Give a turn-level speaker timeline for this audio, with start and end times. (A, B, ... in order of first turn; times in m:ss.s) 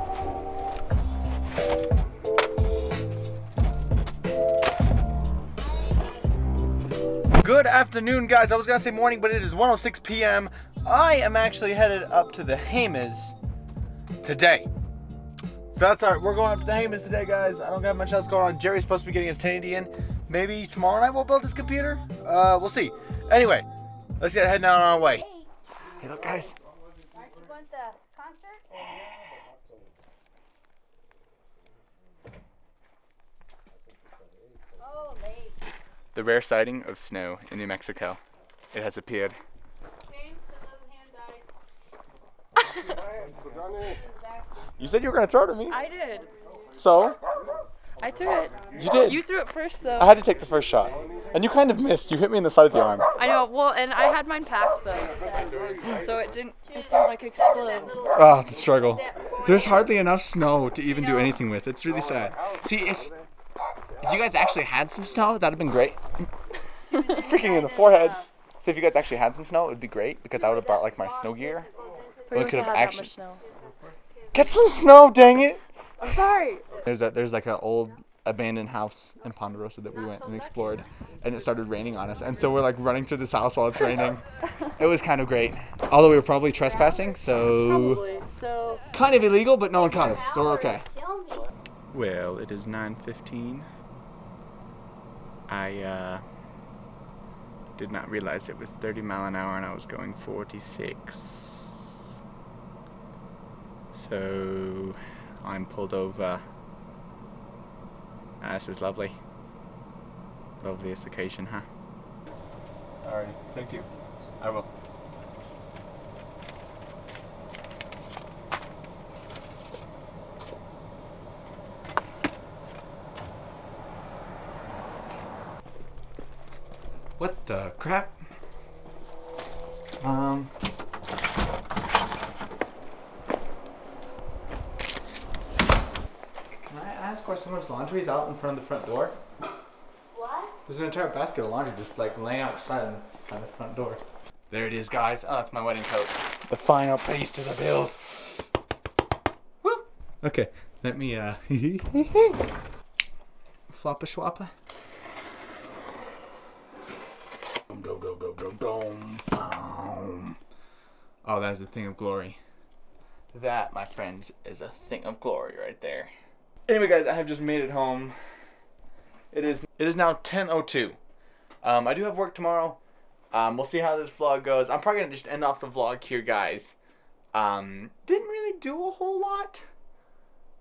0:07.4-0:13.3 A
0:14.2-0:14.7 A
0:15.7-0:23.7 A
0:24.2-0:25.2 A
0:26.0-0:26.6 A
0:27.2-0:28.6 B
0:34.8-0:35.6 B
0:36.1-0:38.2 A
0:38.7-0:39.4 A
0:40.4-0:41.3 B
0:44.8-0:45.8 A
0:45.7-0:46.3 C
0:46.7-0:47.2 A
0:48.0-0:50.2 C
0:48.7-0:49.2 A
0:50.0-0:53.0 A
0:53.2-0:58.1 C
0:58.1-1:03.1 A
1:04.0-1:06.0 A
1:07.0-1:11.7 A
1:12.3-1:13.1 A
1:12.3-1:13.4 C
1:14.3-1:15.6 A
1:16.0-1:16.6 C
1:16.8-1:24.2 A
1:24.8-1:28.0 A
1:27.5-1:28.8 C
1:28.9-1:30.8 A
1:30.8-1:31.4 B
1:31.9-1:33.7 A
1:35.5-1:36.2 A
1:37.8-1:41.9 A
1:43.9-1:46.4 A
1:48.4-1:49.2 A
1:50.6-1:51.6 A
1:53.0-1:53.9 A
1:54.4-1:54.7 A
2:07.2-2:08.2 A
2:10.0-2:10.5 A
2:16.6-2:19.2 A
2:20.1-2:20.5 B
2:20.6-2:28.4 A
2:29.6-2:32.4 A
2:33.7-2:34.5 A
2:37.7-2:40.4 A
2:41.2-2:42.4 A
2:43.3-2:46.1 A
2:46.7-2:48.1 A
2:49.3-2:51.0 A
2:51.6-2:52.8 A
2:53.3-2:56.8 A
2:57.3-2:59.6 A